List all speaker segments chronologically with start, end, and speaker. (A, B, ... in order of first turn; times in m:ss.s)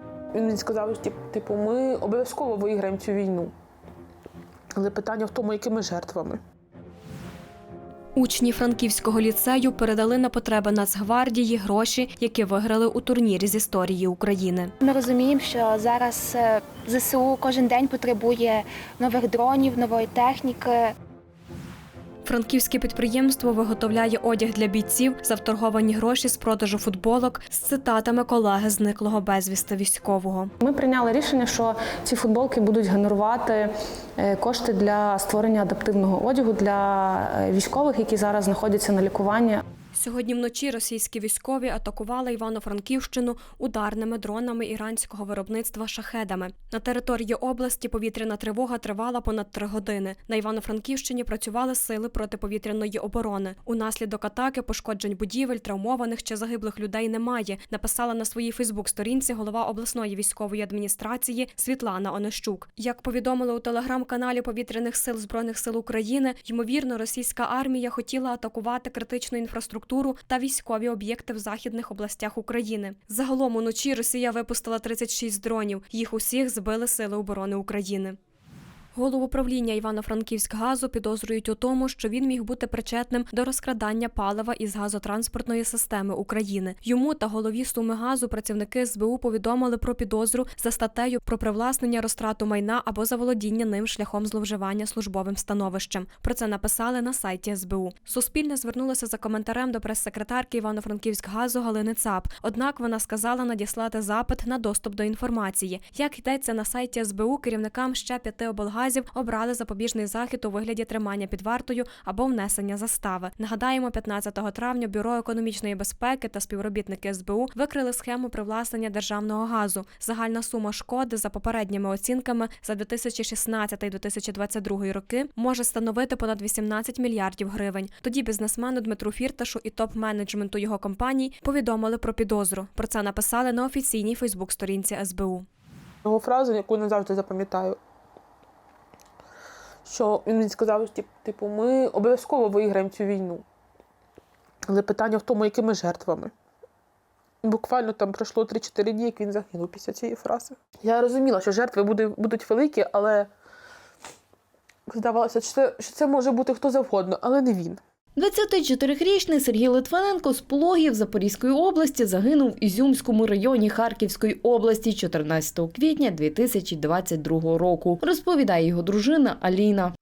0:00.3-0:03.5 A
0:04.8-0:06.4 A
0:08.2-0:14.7 B
0:14.8-0:20.9 C
0:22.2-0:30.5 B
0:30.6-0:39.6 D
0:39.9-1:18.2 B
1:19.0-2:15.4 B
2:16.0-2:17.8 A
2:19.8-2:23.4 A
2:24.7-2:26.3 A
2:27.4-2:33.3 A
2:34.9-2:37.8 A
2:38.2-2:49.9 E